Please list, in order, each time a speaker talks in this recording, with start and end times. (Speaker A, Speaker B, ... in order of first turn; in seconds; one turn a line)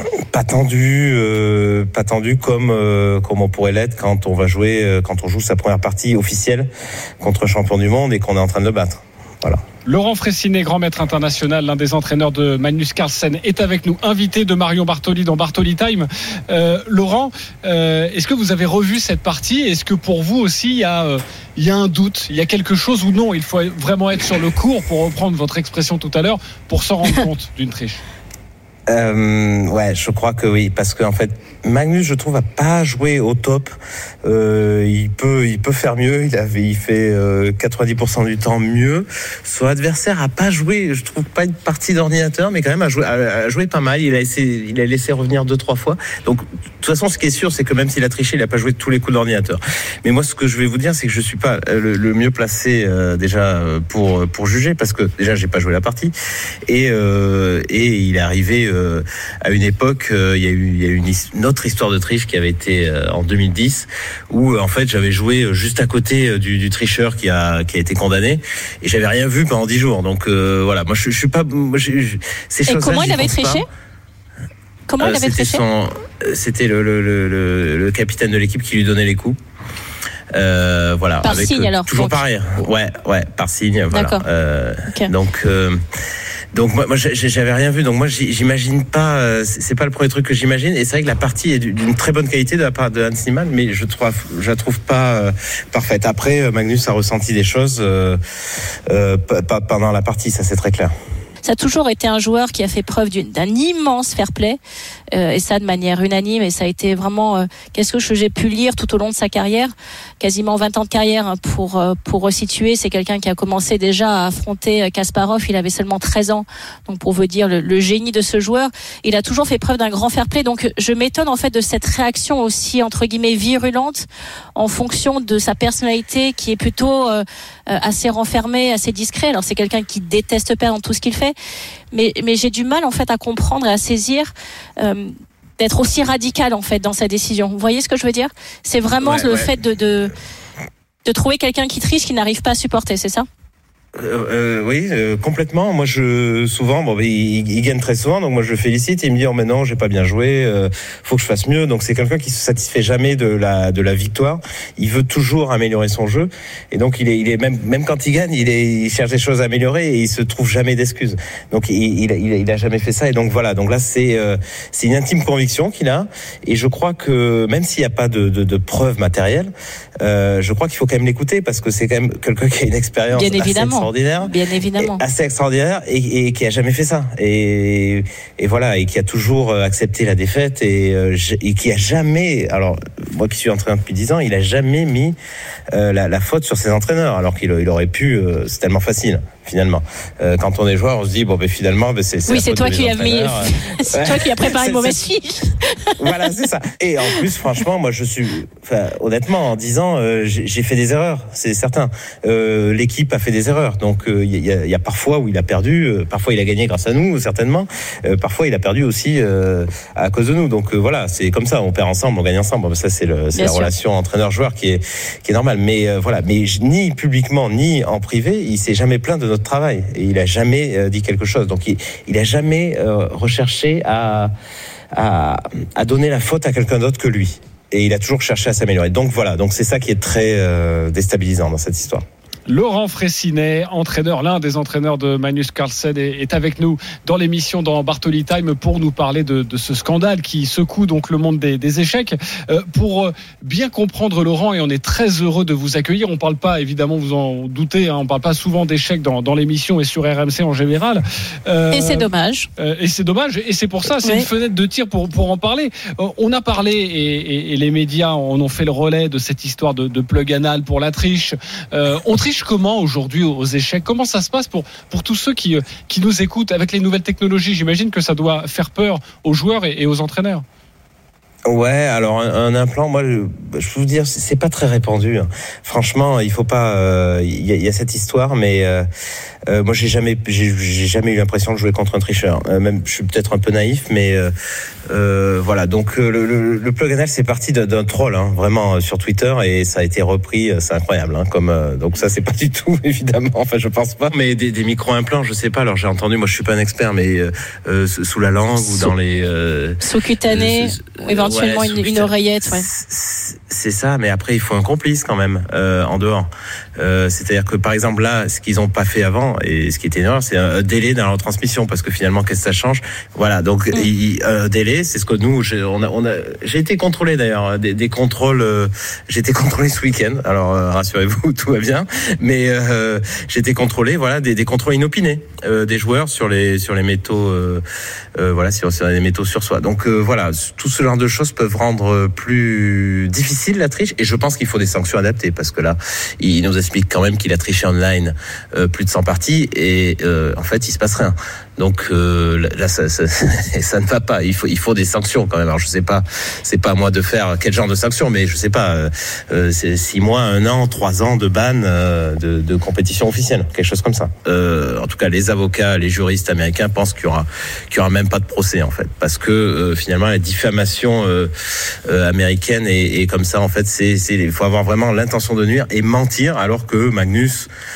Speaker A: 0.3-6.7
Speaker A: 7.2-9.6
Speaker B: 9.8-28.0
Speaker A: 28.9-33.7
Speaker A: 34.2-56.1
Speaker A: 56.7-73.7
Speaker C: 72.7-73.7
Speaker C: 74.9-75.6
Speaker A: 75.0-79.4
Speaker A: 80.3-85.8
Speaker C: 81.2-82.2
Speaker C: 83.9-84.2
Speaker A: 86.5-98.2
Speaker A: 98.9-100.9
Speaker C: 101.4-104.6
Speaker C: 105.1-131.3
Speaker C: 131.9-140.1
Speaker A: 139.0-139.5
Speaker C: 141.1-143.3
Speaker A: 144.0-169.5
Speaker A: 170.0-185.2
Speaker C: 173.1-175.0
Speaker A: 185.7-195.0
Speaker C: 192.3-195.9
Speaker A: 196.0-224.3
Speaker C: 213.3-213.7
Speaker A: 224.9-232.0
Speaker B: 232.5-270.4
Speaker C: 251.7-252.5
Speaker C: 254.0-254.3
Speaker A: 271.5-278.9
Speaker A: 279.5-284.3
Speaker A: 284.9-327.6
Speaker C: 298.6-298.9
Speaker C: 299.8-302.7
Speaker A: 328.2-361.3
Speaker A: 361.9-367.5